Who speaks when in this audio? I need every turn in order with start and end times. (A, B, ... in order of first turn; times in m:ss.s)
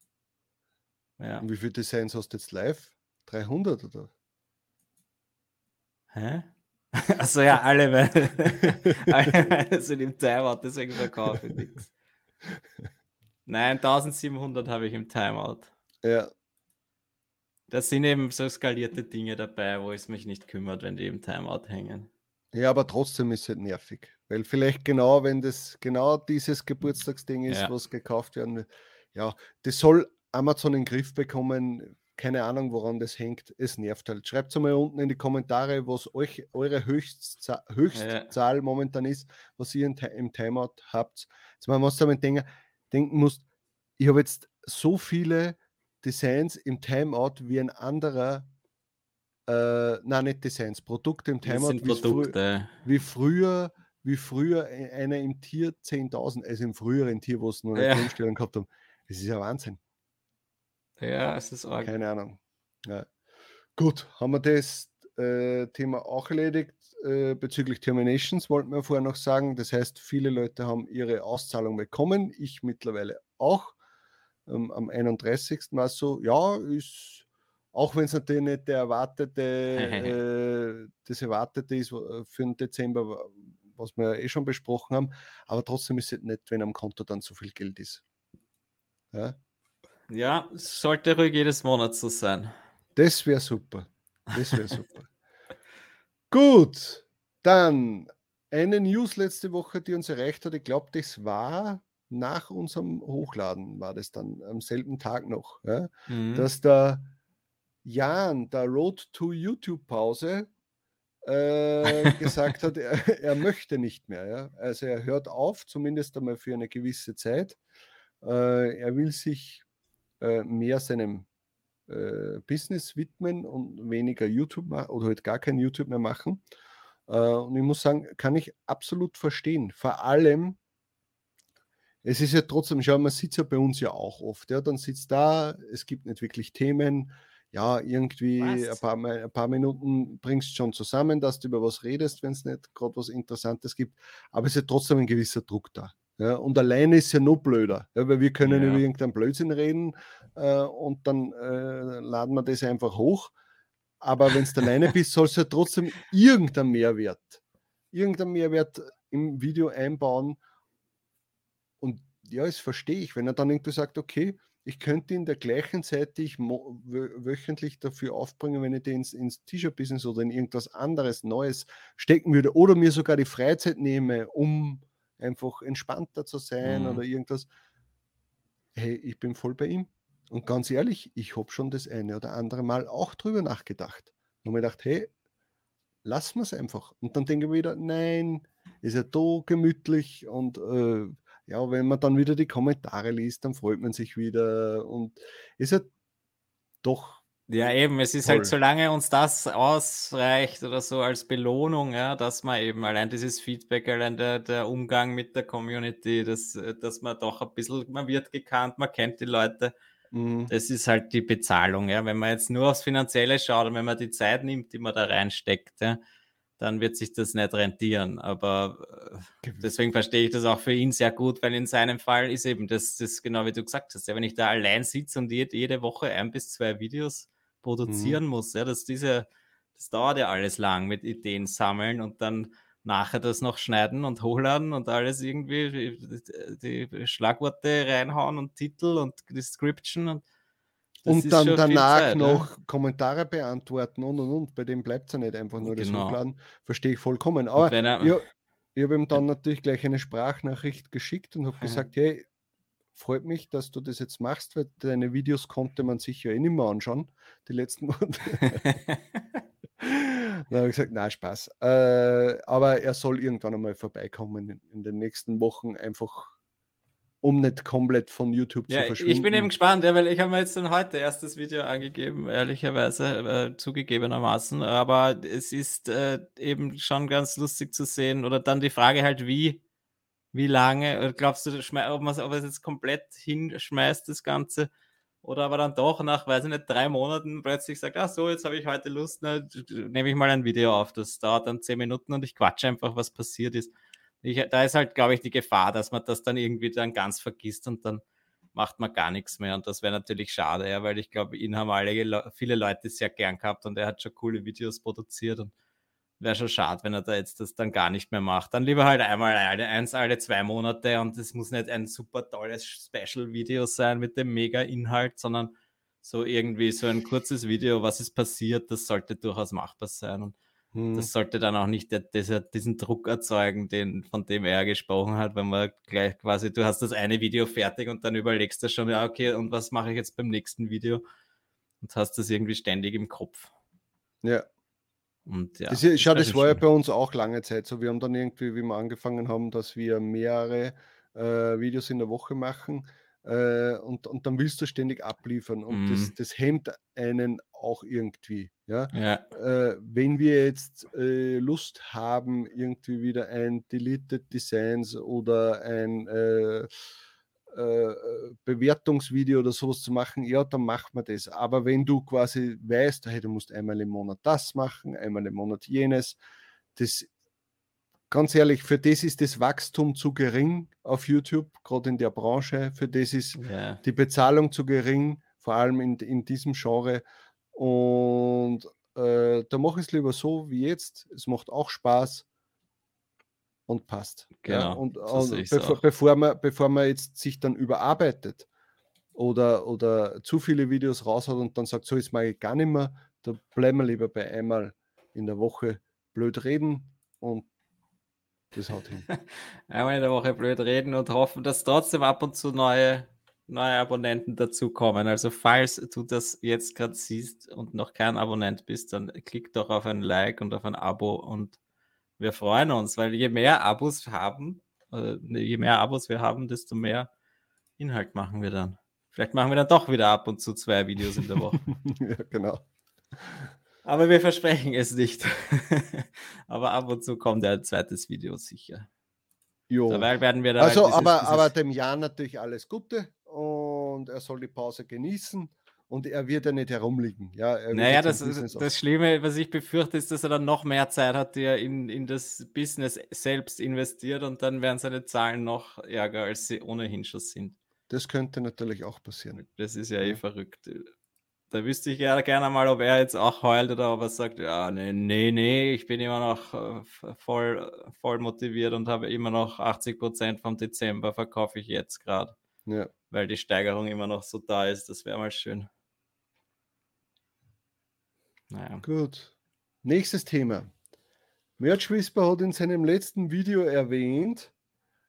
0:01.2-0:01.5 A
0:01.4-0:04.1 B
0:06.1-0:11.9 A
0:08.6-0:09.3 B
0:13.5-0:15.7 A
0:16.0-0:16.3 B
0:17.7-0:22.1 A
0:22.5-0:43.4 B
0:37.9-0:38.3 A
0:44.0-0:48.5 B
0:49.5-0:52.3 B
0:51.4-0:52.7 A
0:52.8-0:59.8 B
0:57.8-0:58.1 A
1:01.0-1:01.9 A
1:01.8-1:03.1 B
1:03.8-1:13.8 B
1:14.5-1:28.0 B
1:19.7-1:20.2 A
1:29.1-1:29.4 B
1:30.1-1:32.5 A
1:33.0-1:35.1 B
1:36.3-1:47.1 B
1:46.1-1:46.5 A
1:47.8-1:50.5 B
1:51.2-1:57.6 B
1:58.2-1:59.6 B
2:00.2-2:01.3 B
2:01.9-2:06.4 B
2:07.1-2:10.6 B
2:12.0-2:33.3 B
2:18.4-2:18.8 A
2:28.5-2:28.8 A
2:34.0-2:37.4 B
2:37.9-2:40.4 B
2:41.8-2:57.5 B
2:56.6-2:57.0 A
2:58.8-3:05.1 B
3:06.0-3:15.9 B
3:16.8-3:17.2 B
3:17.5-3:29.7 A
3:18.2-3:18.5 B
3:30.1-3:30.5 B
3:30.5-3:36.0 A
3:36.6-4:00.2 A
3:47.9-3:48.2 B
4:01.1-4:02.5 A
4:01.1-4:12.3 B
4:05.6-4:06.2 A
4:07.6-4:08.2 A
4:13.0-4:18.6 B
4:18.5-4:19.0 A
4:19.8-4:26.4 B
4:27.2-4:29.5 B
4:28.7-4:39.6 A
4:40.3-4:44.7 A
4:45.2-4:53.7 A
4:54.2-4:58.0 A
4:58.6-5:05.5 A
5:06.2-5:15.5 A
5:16.0-5:20.4 A
5:20.7-5:21.1 B
5:21.0-5:31.0 A
5:31.8-5:33.5 A
5:35.3-5:36.6 A
5:35.7-5:56.7 B
5:45.7-5:46.1 A
5:48.9-5:49.2 A
5:57.5-6:06.2 B
6:06.8-6:07.1 B
6:08.1-6:22.3 B
6:13.4-6:13.8 A
6:23.7-6:28.5 B
6:24.4-6:25.8 A
6:29.2-6:37.5 B
6:38.5-6:39.1 B
6:39.7-6:51.6 A
6:52.2-6:57.1 A
6:57.8-7:01.6 A
7:01.6-7:02.6 B
7:03.8-7:08.9 A
7:09.7-7:18.7 B
7:09.9-7:11.5 A
7:17.7-7:27.6 A
7:27.9-7:29.4 B
7:29.4-7:30.9 A
7:31.5-7:42.4 A
7:43.1-7:45.7 A
7:48.5-7:48.8 A
7:48.8-7:49.3 B
7:49.8-7:50.7 B
7:51.6-7:54.5 B